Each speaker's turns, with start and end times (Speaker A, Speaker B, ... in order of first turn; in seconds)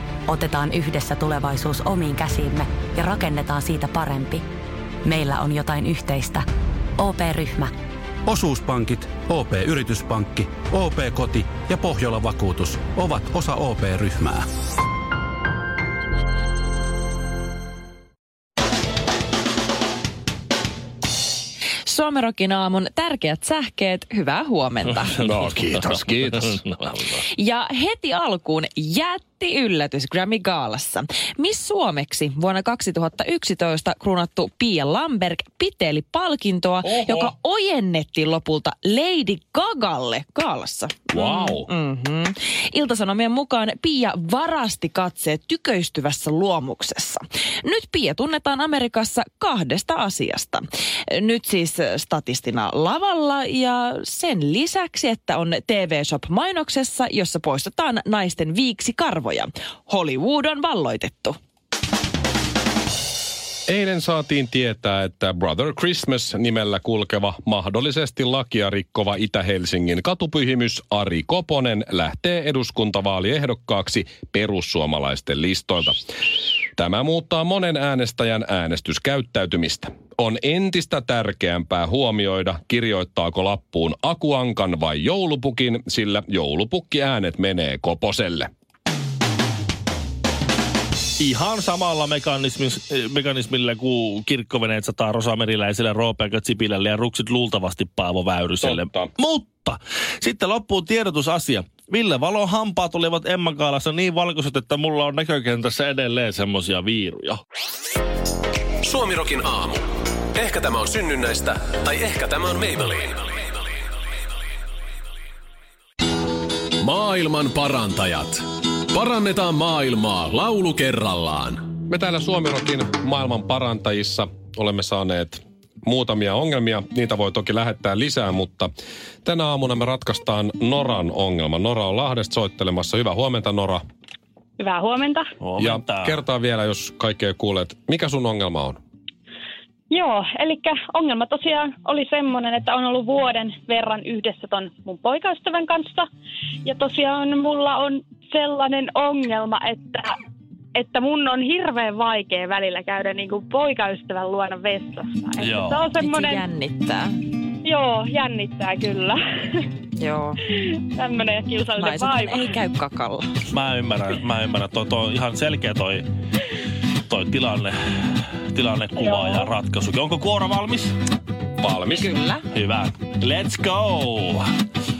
Speaker A: 0.3-4.4, 5.0-6.5, 7.0-7.7
Speaker B: 8.2-14.5
Speaker C: 21.9-25.1, 27.3-61.4, 155.6-157.2, 160.0-160.4, 161.7-163.3, 171.9-172.4
Speaker D: 25.1-27.2, 91.2-107.4, 135.4-136.2, 155.4-155.8, 163.5-166.1, 167.1-170.9, 172.5-174.4
Speaker E: 25.2-26.6, 36.8-37.3, 41.1-41.7, 63.7-75.9, 76.8-88.5, 98.6-99.1, 121.8-128.7, 129.2-133.8, 135.6-138.8, 171.6-172.2
Speaker F: 108.8-109.8, 110.3-113.5, 116.8-121.6
Speaker G: 134.6-135.3, 139.9-146.1, 146.6-150.1, 150.8-156.4, 157.6-159.2, 160.9-162.4